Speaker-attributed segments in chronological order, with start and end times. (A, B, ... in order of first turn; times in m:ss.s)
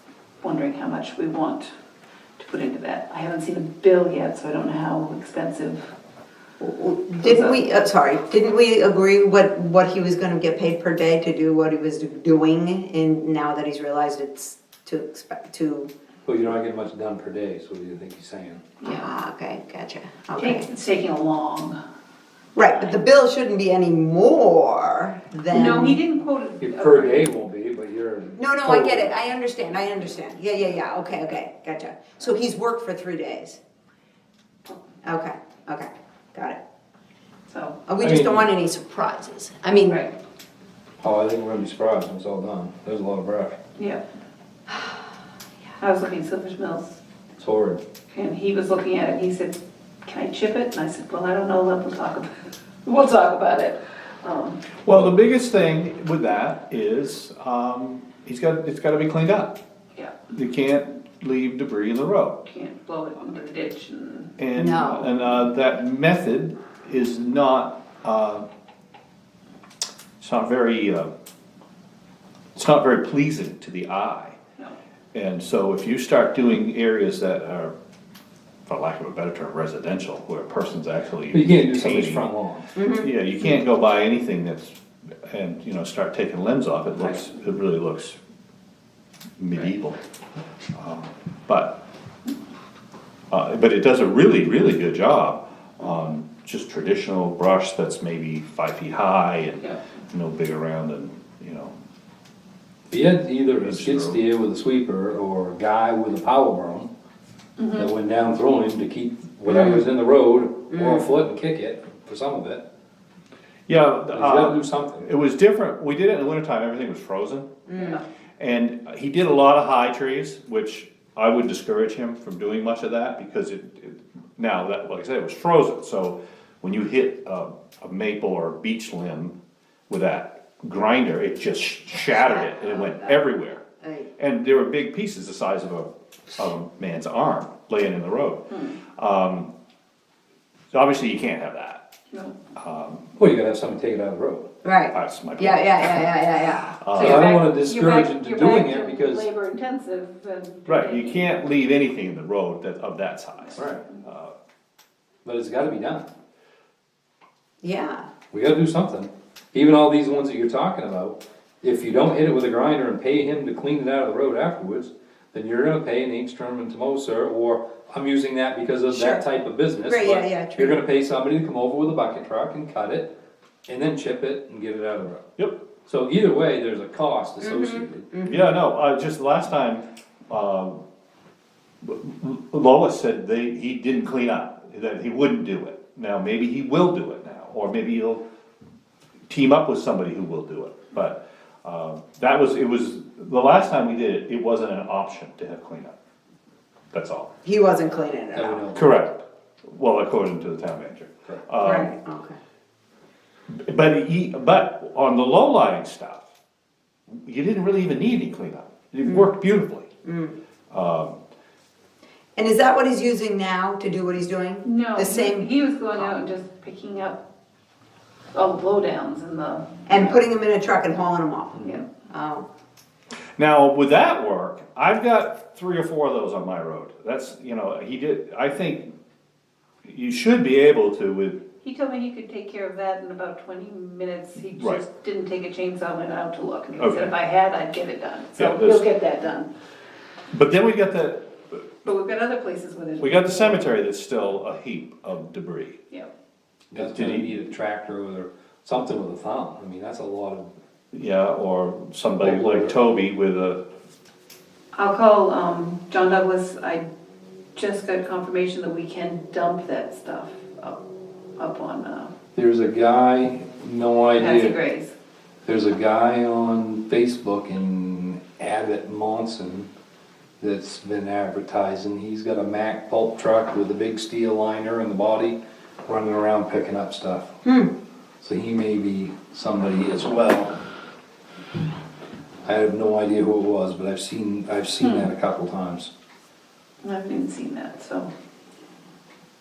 0:00.4-0:01.7 A
0:02.4-0:05.9 A
0:06.6-0:15.9 B
0:07.2-0:07.6 A
0:16.2-0:18.7 C
0:18.8-0:19.1 A
0:18.8-0:20.7 B
0:20.4-0:21.8 A
0:22.5-0:26.0 B
0:25.5-0:27.3 A
0:26.6-0:29.1 C
0:28.4-0:33.6 B
0:35.0-0:36.6 B
0:37.5-0:37.8 A
0:37.9-0:40.0 B
0:38.0-0:38.5 C
0:41.0-0:43.6 C
0:43.8-0:44.0 A
0:45.8-0:47.0 A
0:47.4-0:47.8 C
0:48.1-0:54.6 A
0:54.8-0:59.6 D
1:00.3-1:02.4 D
1:02.4-1:04.3 A
1:04.4-1:08.4 D
1:04.6-1:05.2 B
1:10.2-1:11.1 D
1:12.5-1:14.4 D
1:15.1-1:17.7 D
1:18.7-1:24.8 D
1:21.3-1:22.7 C
1:22.8-1:23.4 B
1:25.3-1:28.2 D
1:29.4-1:30.0 D
1:30.7-1:31.8 D
1:33.3-1:41.7 D
1:42.9-1:46.9 C
1:43.5-1:44.2 D
1:47.6-1:47.9 A
1:47.7-1:52.6 C
1:49.5-1:49.8 B
1:50.7-1:51.0 B
1:53.7-1:57.5 D
1:54.1-1:55.1 C
1:57.7-1:58.0 B
1:57.8-1:58.0 A
1:58.4-2:09.3 D
2:09.9-2:13.6 D
2:12.9-2:13.1 A
2:13.8-2:14.1 B
2:14.2-2:19.5 D
2:18.5-2:18.8 A
2:20.7-2:21.8 D
2:22.6-2:23.1 D
2:23.2-2:24.5 C
2:24.6-2:26.8 B
2:24.9-2:26.1 D
2:26.7-2:27.4 D
2:27.0-2:31.3 A
2:27.0-2:29.3 C
2:30.7-2:34.3 D
2:33.6-2:33.8 C
2:35.2-2:36.1 C
2:37.6-2:38.1 B
2:38.3-2:53.1 C
2:48.9-2:49.2 B
2:49.8-2:50.8 B
2:53.7-2:55.2 C
2:55.8-2:58.1 C
2:57.4-2:58.6 B
2:58.2-3:00.8 D
3:01.8-3:08.2 D
3:09.3-3:15.9 D
3:16.9-3:17.3 D
3:17.4-3:18.7 B
3:18.3-3:18.9 C
3:18.7-3:21.9 D
3:21.6-3:22.4 B
3:23.5-3:26.2 D
3:27.1-3:29.9 D
3:30.0-3:30.4 B
3:30.7-3:31.2 D
3:32.4-3:36.1 B
3:34.6-3:37.2 A
3:38.3-3:40.2 A
3:39.9-3:42.4 B
3:41.6-3:41.8 C
3:43.4-3:48.9 D
3:49.8-3:51.4 D
3:51.6-3:59.5 A
3:54.6-3:54.8 D
3:56.8-3:57.1 D
3:58.4-3:58.8 D
4:00.3-4:01.3 D
4:01.8-4:03.7 A
4:03.0-4:05.8 D
4:06.7-4:10.5 C
4:06.7-4:07.4 D
4:10.9-4:13.6 D
4:12.2-4:12.8 C
4:14.7-4:16.9 A
4:17.5-4:20.8 A
4:21.4-4:22.1 A
4:22.3-4:24.6 C
4:24.1-4:24.9 A
4:25.4-4:29.7 C
4:30.4-4:37.4 C
4:37.4-4:37.7 B
4:38.2-4:40.6 C
4:42.4-4:45.9 C
4:44.8-4:45.1 A
4:46.8-4:48.1 A